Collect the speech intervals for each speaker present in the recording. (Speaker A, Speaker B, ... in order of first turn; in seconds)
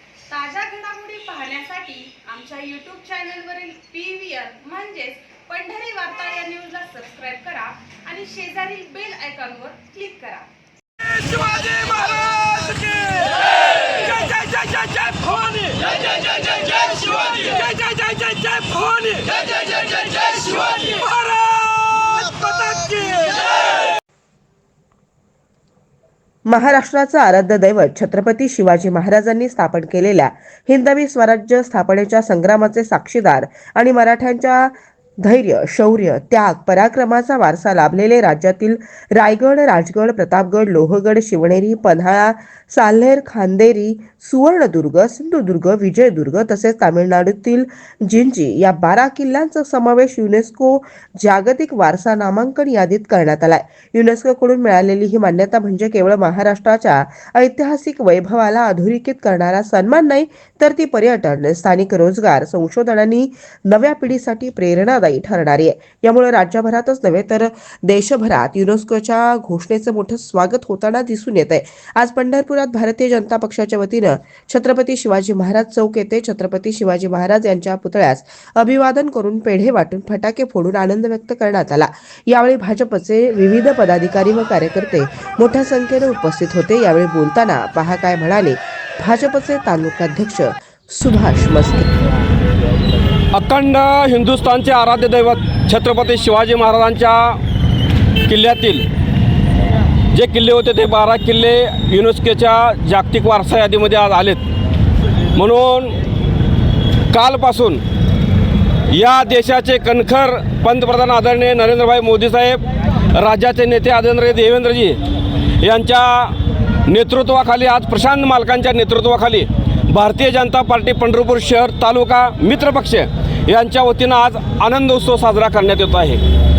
Speaker A: 0.3-10.5, 13.4-14.5
Speaker B: 11.3-13.3, 14.1-15.9, 16.5-23.4, 93.3-97.4, 98.3-98.9, 100.1-104.4, 105.3-106.0, 107.1-107.8, 108.9-115.0, 115.6-126.2
Speaker C: 26.4-91.9